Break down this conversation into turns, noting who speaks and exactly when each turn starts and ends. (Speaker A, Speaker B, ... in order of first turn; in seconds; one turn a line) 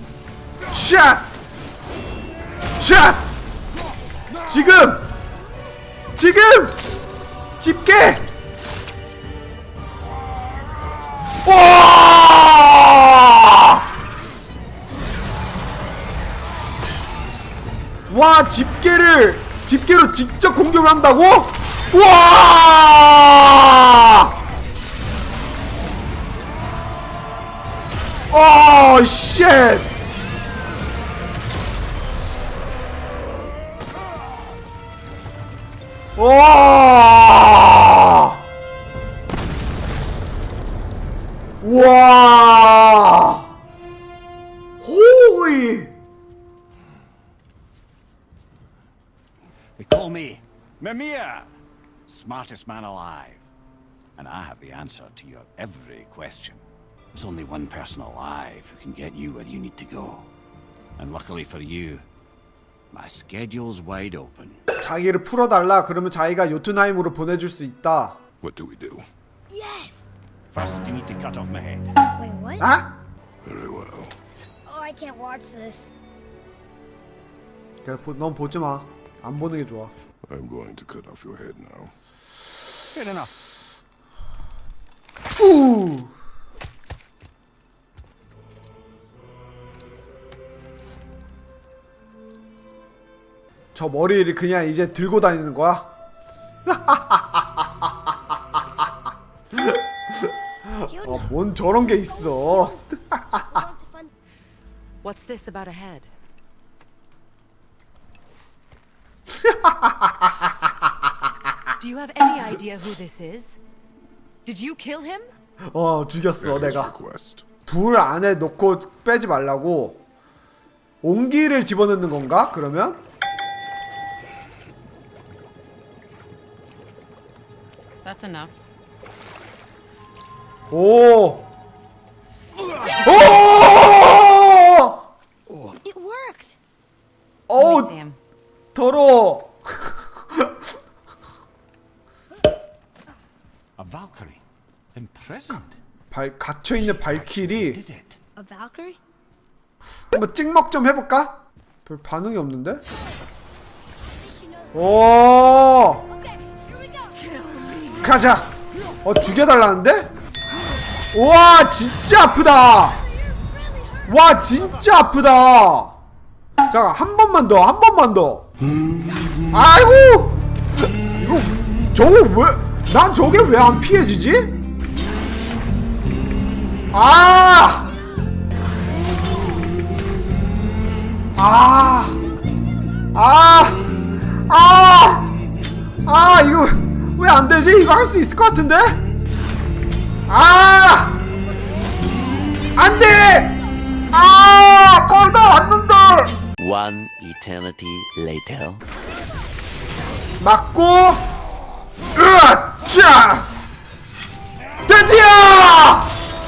Speaker A: 0.7-1.3
Speaker A: 2.8-3.3
Speaker A: 4.4-5.1
Speaker A: 6.2-6.8
Speaker A: 7.6-8.3
Speaker A: 11.4-13.8
Speaker A: 18.1-24.3
Speaker A: 28.3-29.9
Speaker A: 36.2-38.4
Speaker A: 41.6-43.5
Speaker A: 44.8-45.9
Speaker B: 49.8-51.5
Speaker B: 52.1-53.5
Speaker B: 54.2-56.6
Speaker B: 57.1-60.3
Speaker B: 61.0-62.0
Speaker B: 62.9-64.6
Speaker A: 64.8-68.2
Speaker C: 68.4-69.1
Speaker D: 69.5-70.2
Speaker B: 70.5-71.9
Speaker D: 72.2-72.7
Speaker A: 72.6-72.9
Speaker C: 73.4-74.2
Speaker D: 74.7-75.9
Speaker A: 77.8-79.9
Speaker C: 80.3-82.0
Speaker B: 82.9-83.3
Speaker A: 85.4-86.1
Speaker A: 93.8-95.9
Speaker A: 96.7-97.9
Speaker A: 99.5-99.8
Speaker A: 100.7-103.6
Speaker D: 100.8-101.3
Speaker D: 101.8-104.1
Speaker E: 105.0-106.1
Speaker A: 109.3-110.3
Speaker E: 111.8-113.6
Speaker E: 114.5-115.3
Speaker A: 115.7-116.9
Speaker C: 116.4-117.5
Speaker A: 117.7-120.0
Speaker A: 121.0-123.0
Speaker E: 128.0-128.5
Speaker A: 130.7-131.5
Speaker A: 133.0-135.0
Speaker D: 135.8-136.6
Speaker A: 137.5-137.9
Speaker E: 137.6-138.2
Speaker A: 138.7-140.5
Speaker B: 143.8-144.4
Speaker B: 144.9-145.8
Speaker A: 146.1-147.8
Speaker B: 146.8-148.2
Speaker D: 148.4-149.0
Speaker A: 150.1-152.8
Speaker D: 154.2-154.8
Speaker A: 154.7-156.0
Speaker D: 155.9-158.1
Speaker A: 158.0-158.5
Speaker A: 159.0-160.1
Speaker A: 161.1-163.0
Speaker D: 162.8-164.7
Speaker A: 164.1-166.0
Speaker A: 166.7-168.5
Speaker A: 169.5-170.4
Speaker A: 171.1-174.5
Speaker A: 176.9-177.9
Speaker A: 181.4-182.2
Speaker A: 183.1-185.3
Speaker A: 186.1-189.0
Speaker A: 190.3-191.2
Speaker A: 192.8-193.6
Speaker A: 194.1-196.3
Speaker F: 196.6-198.8
Speaker A: 200.4-201.2
Speaker A: 202.1-203.5
Speaker A: 204.9-206.1